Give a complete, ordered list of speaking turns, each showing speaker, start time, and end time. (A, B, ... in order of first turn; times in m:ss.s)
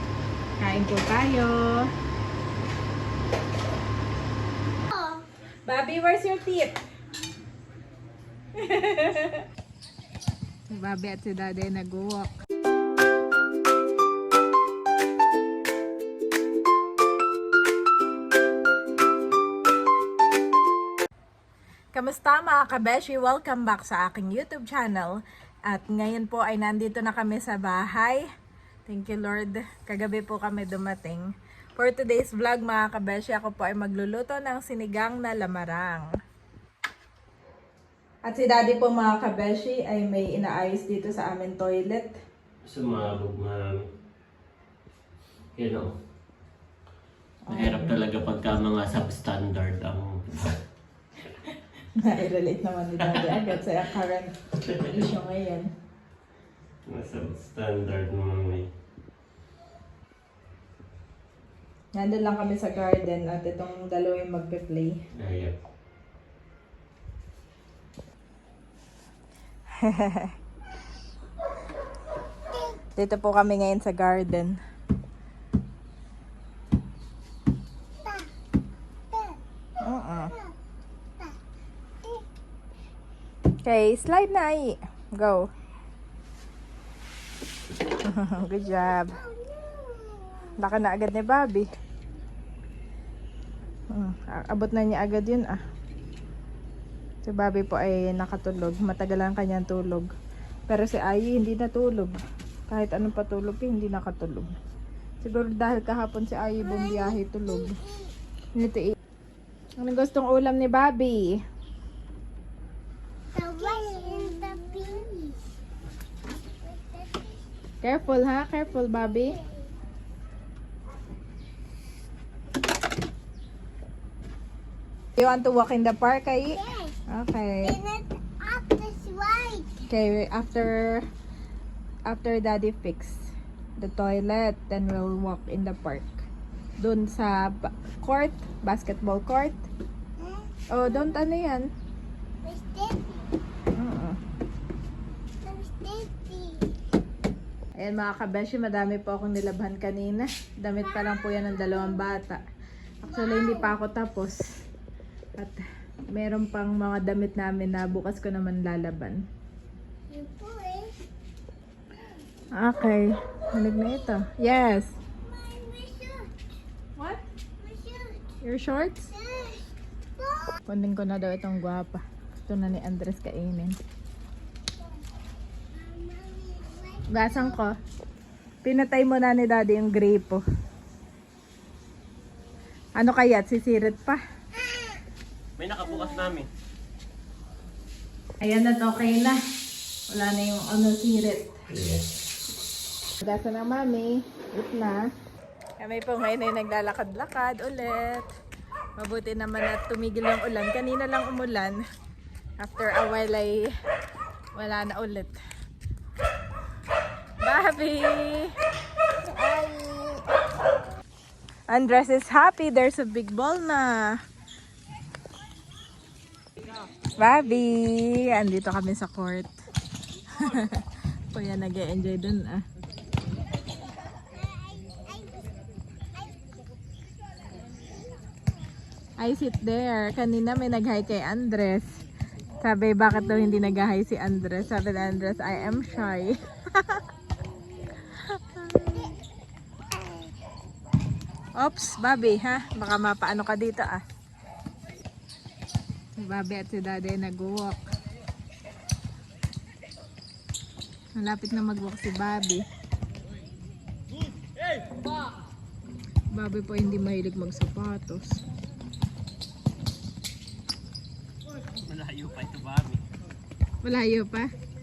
0:00.6-0:01.8 A
0:04.9-0:05.2 B
0:05.7-0:06.8 A
0:08.6-0:09.4 A
0:10.7-0:12.3 A
0:21.9-0:28.2 A
0:28.9-0:36.1 A
0:38.3-0:42.1 A
0:42.6-0:43.9 C
0:45.6-0:46.0 C
0:47.5-0:48.0 A
0:47.5-0:50.6 C
0:52.0-0:55.7 A
0:53.0-0:53.5 C
0:54.6-0:54.9 C
0:56.8-0:58.7 C
1:02.0-1:05.0 A
1:05.1-1:05.6 C
1:09.8-1:10.3 A
1:12.5-1:12.8 B
1:13.0-1:14.6 A
1:18.0-1:18.3 B
1:19.1-1:19.4 B
1:19.8-1:20.3 A
1:23.7-1:25.5 A
1:28.0-1:29.2 A
1:28.9-1:30.5 B
1:30.6-1:31.7 A
1:33.9-1:35.6 A
1:37.3-1:40.1 A
1:40.7-1:42.2 A
1:42.7-1:44.5 A
1:45.2-1:47.8 A
1:46.6-1:48.1 B
1:48.6-1:49.0 A
1:49.8-1:51.4 A
1:53.3-1:55.4 B
1:56.6-1:57.3 B
1:57.8-1:59.4 A
1:58.5-1:59.7 B
2:05.2-2:06.6 A
2:06.6-2:07.0 B
2:07.1-2:07.7 A
2:07.6-2:09.8 B
2:09.9-2:11.0 A
2:12.1-2:16.3 A
2:16.8-2:19.6 A
2:20.2-2:21.2 B
2:20.7-2:21.7 A
2:22.4-2:23.3 B
2:23.8-2:24.2 A
2:25.4-2:26.7 B
2:27.8-2:32.4 A
2:30.8-2:32.0 B
2:33.1-2:34.4 A
2:33.1-2:33.8 B
2:36.1-2:39.2 A
2:40.1-2:40.9 B
2:42.6-2:44.9 A
2:43.6-2:44.3 B
2:45.2-2:46.3 B
2:47.0-2:47.2 A
2:47.6-2:48.4 B
2:48.4-2:49.1 A
2:49.1-2:49.7 B
2:50.2-2:50.6 B
2:50.7-2:53.8 A
2:55.7-2:57.6 B
2:57.1-2:57.7 A
2:58.6-3:00.4 A
3:03.0-3:04.2 A
3:05.6-3:06.5 C
3:08.4-3:09.4 A
3:10.1-3:11.5 A
3:11.7-3:12.2 C
3:13.2-3:15.0 A
3:15.8-3:18.3 A
3:19.0-3:21.8 A
3:22.6-3:23.7 A
3:24.6-3:25.4 A
3:27.4-3:28.5 A
3:29.3-3:30.3 B
3:31.7-3:34.2 A
3:37.2-3:39.5 A
3:40.3-3:42.6 A
3:44.0-3:45.6 B
3:49.2-3:51.9 A
3:52.6-3:57.0 A
3:58.5-3:59.1 A
4:01.6-4:04.0 A
4:06.2-4:07.8 A
4:11.2-4:12.6 A
4:16.3-4:18.4 A
4:21.7-4:23.0 C
4:23.8-4:24.5 A